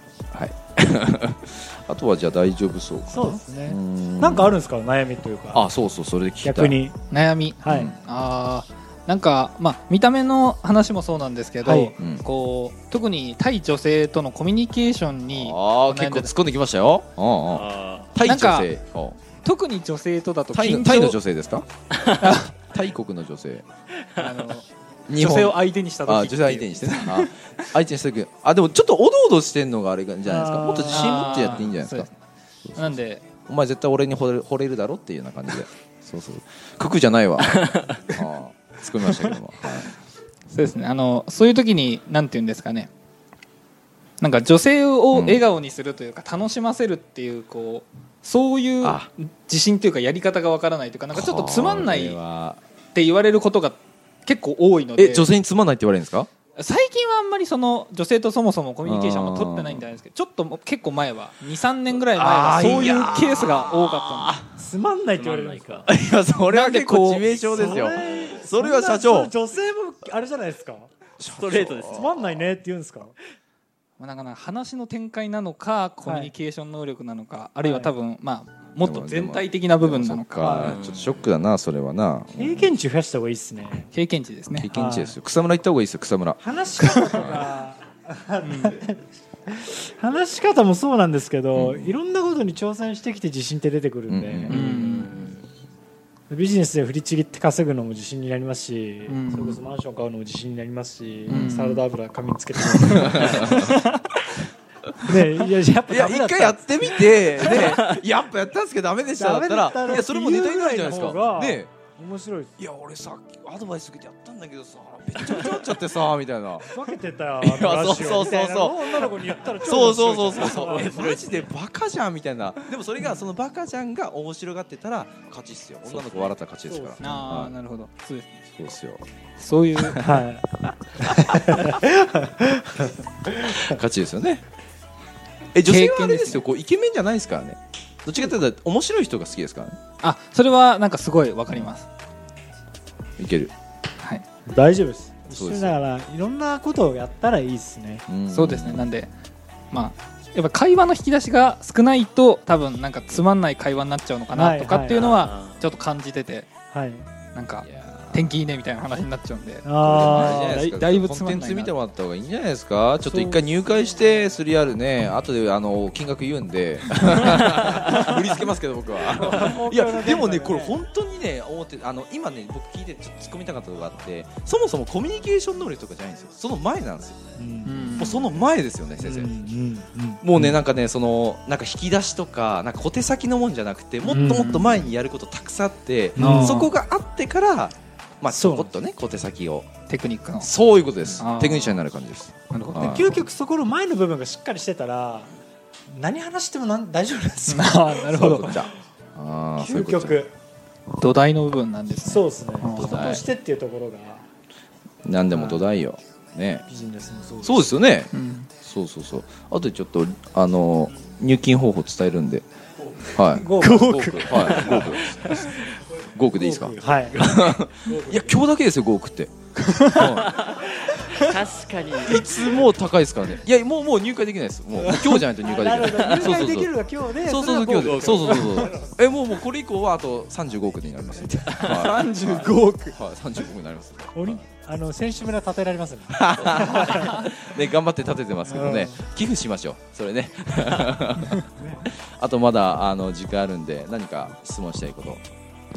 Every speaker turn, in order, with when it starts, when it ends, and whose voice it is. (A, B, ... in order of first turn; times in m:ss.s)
0:00.3-0:04.5 A
0:03.1-0:05.7 B
0:05.5-0:06.8 A
0:06.4-0:07.0 B
0:07.1-0:16.3 C
0:07.6-0:07.9 B
0:07.7-0:08.0 A
0:11.6-0:11.9 B
0:12.0-0:12.2 A
0:15.3-0:19.2 A
0:17.5-0:18.1 D
0:18.2-0:18.7 C
0:19.3-0:21.2 C
0:20.5-0:21.7 A
0:22.2-0:22.5 C
0:22.7-0:23.6 A
0:24.2-0:27.3 C
0:25.1-0:32.1 A
0:30.2-0:31.6 B
0:30.7-0:32.1 C
0:32.7-0:33.0 A
0:32.8-0:33.2 C
0:33.5-0:39.9 A
0:40.5-0:42.9 C
0:44.2-0:52.2 C
0:45.1-0:45.4 A
0:48.8-0:49.1 A
0:51.1-0:52.6 A
0:52.9-0:55.3 C
0:55.0-0:56.3 A
0:56.6-1:04.4 C
0:58.8-0:59.9 A
1:02.1-1:04.4 A
1:04.6-1:05.8 B
1:05.2-1:05.8 D
1:05.9-1:09.3 A
1:06.5-1:07.7 C
1:07.5-1:10.9 B
1:11.2-1:12.1 A
1:11.3-1:12.2 D
1:11.9-1:13.2 B
1:14.0-1:20.8 C
1:16.0-1:16.3 B
1:17.6-1:17.9 B
1:18.8-1:22.7 A
1:20.6-1:21.2 D
1:22.4-1:23.9 B
1:23.9-1:24.7 C
1:24.6-1:26.4 A
1:24.7-1:25.2 B
1:26.4-1:34.8 B
1:26.8-1:27.2 C
1:26.9-1:27.4 A
1:28.4-1:28.8 C
1:31.6-1:31.9 A
1:34.1-1:34.6 A
1:34.5-1:35.2 C
1:34.7-1:35.4 D
1:36.3-1:43.8 B
1:39.1-1:39.6 C
1:41.3-1:41.8 C
1:42.8-1:44.0 C
1:42.9-1:43.7 A
1:45.0-1:47.7 B
1:45.9-1:51.7 A
1:49.2-1:52.5 B
1:52.6-1:56.8 A
1:56.7-2:01.0 B
1:57.4-2:07.5 A
2:00.5-2:01.5 D
2:06.7-2:07.2 B
2:07.0-2:08.4 C
2:08.5-2:09.0 A
2:09.4-2:10.0 C
2:09.8-2:10.2 A
2:10.0-2:13.7 B
2:13.6-2:14.4 A
2:15.5-2:19.8 A
2:15.6-2:16.4 C
2:20.0-2:21.9 C
2:23.2-2:23.5 A
2:24.5-2:28.0 B
2:25.3-2:25.8 A
2:28.1-2:28.9 A
2:28.3-2:29.1 C
2:29.7-2:36.5 C
2:34.3-2:35.2 B
2:35.0-2:35.6 D
2:36.7-2:37.1 B
2:37.4-2:41.7 C
2:37.6-2:38.3 A
2:39.6-2:40.6 B
2:39.8-2:57.2 A
2:43.1-2:43.8 B
2:49.1-2:50.8 B
2:57.4-2:58.1 B
2:57.6-2:58.3 C
2:58.0-2:59.3 A
2:59.0-3:00.5 B
3:00.2-3:09.7 A
3:04.1-3:04.5 B
3:04.1-3:04.9 C
3:06.2-3:06.7 B
3:06.2-3:06.7 C
3:08.3-3:08.7 B
3:09.9-3:10.5 C
3:10.4-3:13.2 A
3:11.2-3:11.8 C
3:12.5-3:13.1 C
3:12.8-3:15.3 B
3:15.9-3:18.5 B
3:17.5-3:18.6 C
3:18.0-3:20.2 A
3:19.6-3:20.3 B
3:21.0-3:23.2 C
3:22.0-3:24.2 B
3:22.8-3:23.2 A
3:25.0-3:26.7 A
3:25.3-3:25.6 B
3:26.7-3:27.7 B
3:27.4-3:32.4 A
3:28.1-3:28.5 C
3:33.1-3:40.4 A
3:33.3-3:35.7 B
3:36.4-3:38.4 B
3:39.7-3:40.0 C
3:40.2-3:42.3 D
3:42.0-3:46.7 A
3:44.9-3:49.0 B
3:47.2-3:54.4 A
3:47.7-3:48.5 D
3:51.2-3:52.7 B
3:51.6-3:51.9 D
3:51.9-3:52.8 C
3:54.1-3:57.3 B
3:56.1-4:05.2 A
3:58.5-3:59.0 B
4:01.6-4:01.9 B